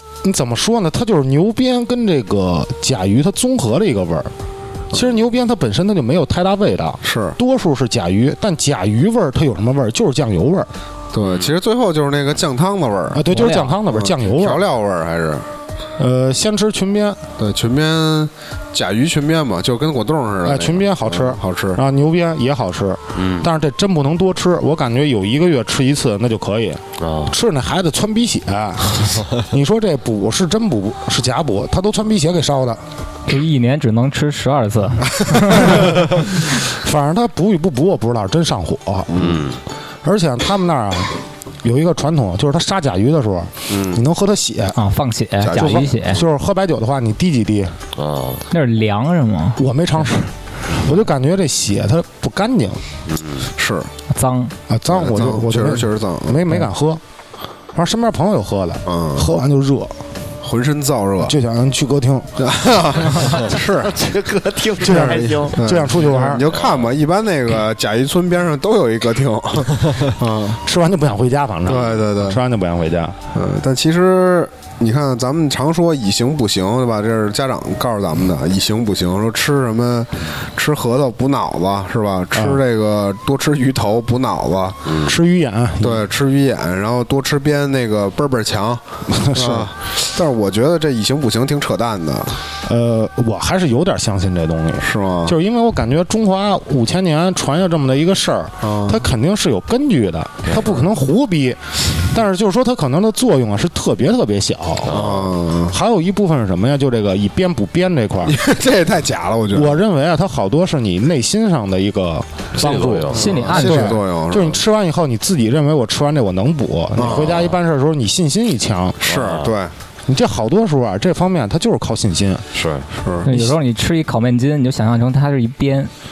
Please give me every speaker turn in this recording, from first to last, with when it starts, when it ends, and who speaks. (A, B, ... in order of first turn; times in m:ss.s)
0:00.2-0:04.3 A
0:04.9-0:10.7 A
0:07.0-0:07.4 B
0:11.1-0:13.3 B
0:11.2-0:11.5 C
0:13.1-0:14.6 A
0:13.3-0:13.8 D
0:13.9-0:15.4 B
0:16.0-0:17.2 A
0:17.4-0:21.8 B
0:20.4-0:32.8 A
0:23.2-0:23.5 C
0:27.0-0:27.3 C
0:33.2-0:36.0 D
0:35.5-0:39.1 A
0:39.1-0:39.4 B
0:39.2-0:39.6 C
0:40.0-0:44.8 A
0:43.7-0:44.0 B
0:44.7-0:46.2 D
0:45.4-0:46.0 B
0:45.5-0:47.8 A
0:48.0-0:48.4 C
0:48.5-0:50.1 D
0:49.6-0:52.8 A
0:53.1-0:53.5 C
0:53.6-0:53.9 B
0:54.1-0:54.5 D
0:54.7-0:57.0 A
0:54.9-0:56.5 B
0:57.7-1:00.0 A
0:58.8-0:59.3 B
1:00.4-1:01.3 B
1:01.2-1:02.4 A
1:02.4-1:03.9 B
1:03.5-1:05.6 E
1:04.8-1:06.4 A
1:04.8-1:10.6 B
1:06.5-1:07.0 C
1:10.6-1:13.2 A
1:11.6-1:12.4 B
1:13.3-1:24.8 B
1:22.3-1:22.6 A
1:24.8-1:25.1 C
1:25.0-1:26.1 A
1:25.8-1:32.4 B
1:29.1-1:29.7 A
1:32.6-1:45.0 A
1:34.8-1:35.3 B
1:38.6-1:39.0 B
1:40.5-1:40.8 B
1:44.8-1:45.3 C
1:44.8-1:45.8 B
1:45.7-1:48.4 A
1:48.2-1:49.8 B
1:49.5-1:59.0 A
1:52.5-1:53.4 C
1:53.1-1:54.6 B
1:53.1-1:54.0 D
1:57.0-1:57.5 B
1:57.0-1:57.5 C
1:59.0-1:59.7 B
1:59.0-1:59.5 C
2:00.1-2:02.4 A
2:02.5-2:02.9 C
2:03.0-2:03.3 B
2:03.2-2:03.5 A
2:03.2-2:05.9 D